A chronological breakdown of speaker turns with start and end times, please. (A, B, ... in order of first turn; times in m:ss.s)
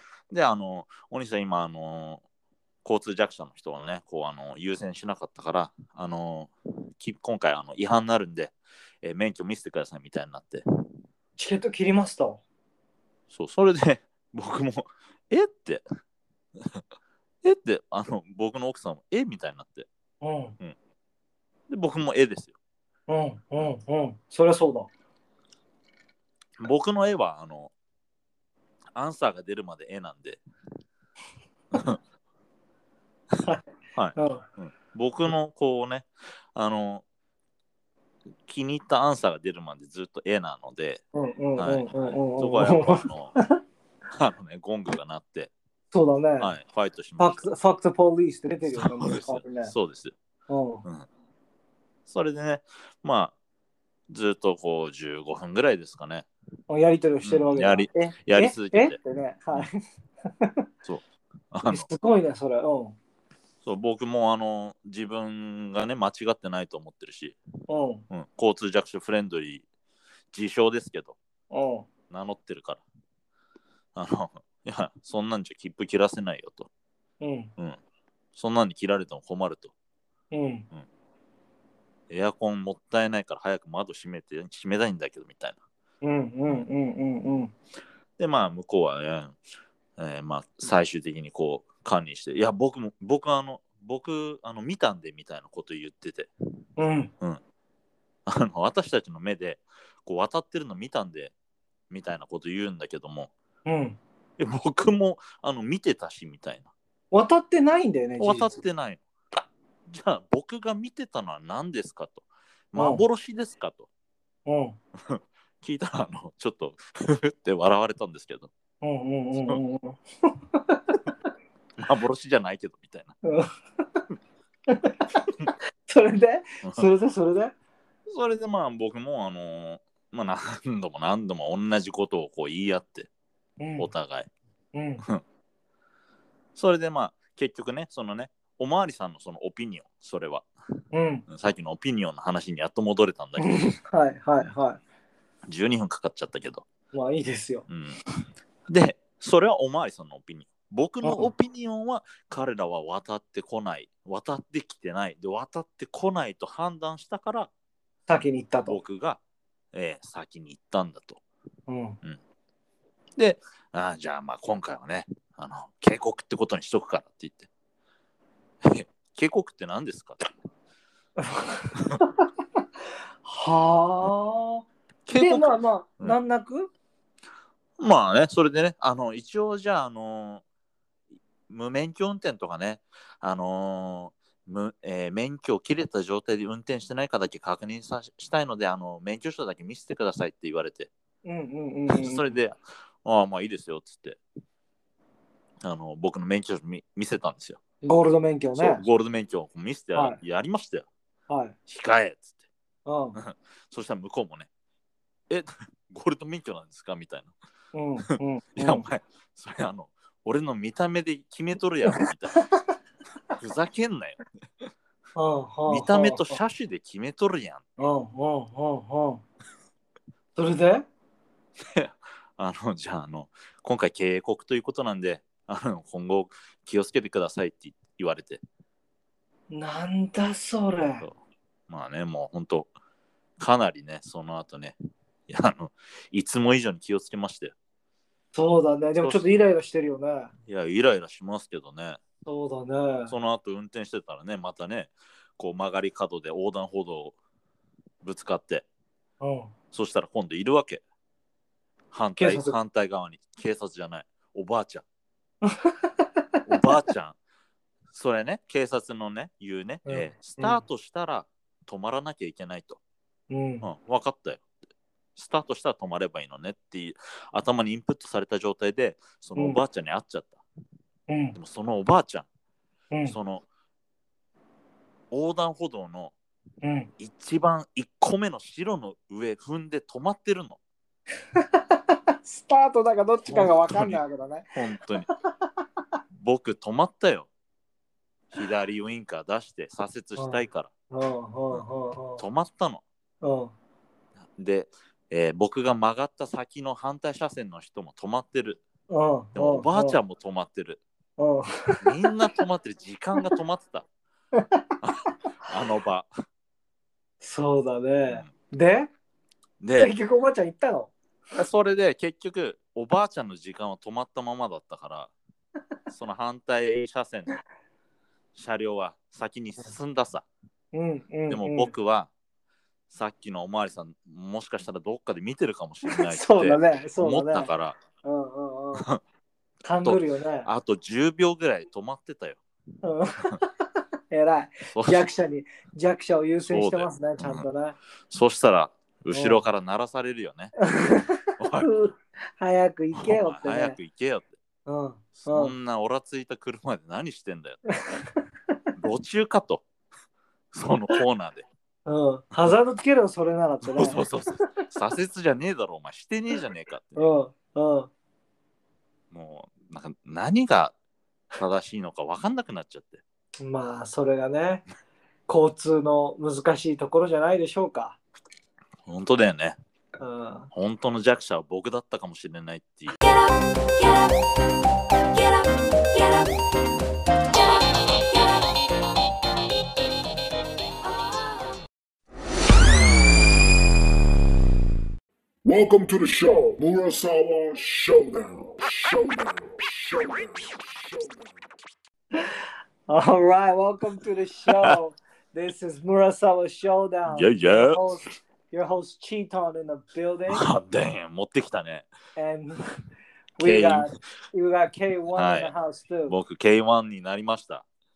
0:00.3-0:02.2 A
0:02.8-0:10.6 A
0:11.4-0:12.4 B
0:13.3-0:15.8 A
0:17.4-0:19.9 A
0:20.2-0:20.6 B
0:21.7-0:22.6 A
0:23.1-0:24.9 B
0:26.6-0:27.7 A
0:29.0-0:30.4 A
0:31.7-0:32.0 A
0:34.0-0:37.0 A
0:34.2-0:34.4 B
0:38.5-0:41.0 A
0:41.1-0:43.6 B
0:41.6-0:43.4 A
0:44.1-0:45.5 A
0:45.9-0:46.5 B
0:46.4-0:47.5 A
0:47.2-0:49.7 B
0:48.7-0:50.2 A
0:50.5-0:50.8 B
0:52.1-0:53.3 A
0:54.1-0:56.3 A
0:56.7-1:00.6 B
0:57.2-0:59.0 A
1:00.8-1:01.9 A
1:01.7-1:03.0 B
1:03.6-1:07.4 A
1:07.7-1:08.0 B
1:08.1-1:09.6 A
1:10.3-1:11.2 A
1:11.5-1:11.9 B
1:12.1-1:12.8 A
1:14.0-1:16.7 A
1:17.2-1:17.5 B
1:18.3-1:19.7 A
1:20.3-1:20.7 B
1:22.1-1:25.6 A
1:26.0-1:27.5 B
1:28.2-1:29.4 A
1:30.0-1:36.3 A
1:36.8-1:37.1 B
1:38.3-1:41.3 A
1:41.9-1:43.3 A
1:43.7-1:44.0 B
1:44.4-1:46.7 A
1:47.1-1:48.5 B
1:48.2-1:53.9 A
1:52.8-1:53.0 B
1:54.5-1:54.8 B
1:55.1-1:58.5 A
1:58.8-2:00.9 B
2:01.8-2:03.2 A
2:03.2-2:04.0 B
2:04.7-2:07.5 B
2:08.1-2:13.1 A
2:13.6-2:13.9 B
2:13.8-2:14.3 A
2:14.7-2:15.0 B
2:16.6-2:20.5 A
2:20.9-2:21.2 B
2:21.3-2:23.6 A
2:23.4-2:24.8 B
2:25.5-2:26.6 A
2:26.9-2:27.7 B
2:27.7-2:28.0 A
2:28.7-2:37.5 A
2:31.0-2:31.3 B
2:38.1-2:38.8 B
2:38.7-2:39.2 A
2:39.7-2:41.2 A
2:41.7-2:42.0 B
2:43.2-2:47.5 A
2:48.6-2:50.3 A
2:51.2-2:52.3 B
2:51.8-2:52.0 A
2:53.2-2:56.7 B
2:55.1-2:56.2 A
2:57.8-3:00.4 A
3:01.5-3:10.9 A
3:11.2-3:12.3 B
3:11.9-3:14.2 A
3:15.6-3:17.6 A
3:17.8-3:18.8 B
3:18.6-3:20.8 A
3:21.3-3:21.6 B
3:21.7-3:22.4 A
3:22.9-3:23.2 B
3:23.2-3:24.5 A
3:25.3-3:27.3 A
3:27.7-3:28.8 B
3:28.6-3:32.4 A
3:33.3-3:34.2 A
3:35.2-3:36.4 B
3:35.7-3:37.6 A
3:37.8-3:39.2 B
3:40.4-3:40.8 B
3:41.6-3:48.4 A
3:49.5-3:51.1 B
3:51.7-3:52.7 A
3:53.4-3:54.8 A
3:55.3-3:57.5 A
3:58.3-4:00.3 B
3:59.0-3:59.3 A
4:00.5-4:02.0 A
4:02.3-4:03.1 B
4:03.1-4:07.2 A
4:08.0-4:08.6 A
4:09.2-4:09.5 B
4:09.7-4:10.8 A
4:11.9-4:14.8 A
4:12.2-4:12.6 B
4:15.4-4:16.1 B
4:16.5-4:17.2 A
4:17.9-4:22.8 A
4:19.9-4:20.6 B
4:23.3-4:23.6 B
4:23.6-4:24.4 A
4:25.2-4:30.4 A
4:29.4-4:29.6 B
4:31.1-4:31.4 B
4:31.4-4:32.3 A
4:33.1-4:33.4 A
4:35.1-4:36.1 A
4:36.6-4:36.9 B
4:37.0-4:40.6 A
4:41.4-4:44.5 B
4:43.3-4:44.0 A
4:44.6-4:45.1 A
4:46.2-4:47.3 A
4:48.3-4:50.7 A
4:50.2-4:52.2 B
4:52.2-4:52.8 A
4:53.2-4:53.5 B
4:54.4-4:58.6 A
4:58.9-5:00.0 B
4:59.4-5:00.8 A
5:01.2-5:01.9 B
5:01.8-5:03.9 A
5:04.4-5:04.7 B
5:04.8-5:06.1 A
5:07.2-5:08.9 B
5:09.6-5:09.9 A
5:09.8-5:10.9 B
5:11.3-5:15.1 A
5:15.9-5:17.4 A
5:18.4-5:20.3 A
5:20.7-5:21.7 B
5:21.3-5:22.1 A
5:22.9-5:27.8 A
5:25.8-5:27.5 B
5:28.0-5:28.9 B
5:29.6-5:30.5 B
5:29.8-5:32.4 A
5:32.8-5:37.8 B
5:34.7-5:35.1 A
5:36.4-5:37.5 A
5:38.1-5:40.6 A
5:39.1-5:39.4 B
5:40.6-5:43.8 B
5:41.4-5:41.7 A
5:43.0-5:44.3 A
5:44.7-5:45.5 B
5:45.2-5:47.6 A
5:48.8-5:49.6 A
5:50.5-5:51.5 A
5:51.9-5:54.4 B
5:53.6-5:57.1 A
5:57.0-5:57.9 B
5:59.1-6:00.8 A
6:01.4-6:03.0 A
6:03.4-6:04.6 B
6:05.3-6:08.0 B
6:08.9-6:09.6 A
6:10.0-6:10.5 B
6:10.5-6:12.9 A
6:12.9-6:14.2 C
6:15.1-6:16.4 C
6:17.3-6:18.6 C
6:20.8-6:21.6 C
6:25.4-6:31.2 D
6:32.9-6:40.4 B
6:34.5-6:34.8 A
6:37.1-6:37.8 A
6:40.3-6:41.9 A
6:42.2-6:42.7 B
6:43.4-6:46.1 B
6:43.4-6:43.9 A
6:45.2-6:45.5 A
6:46.1-6:47.6 A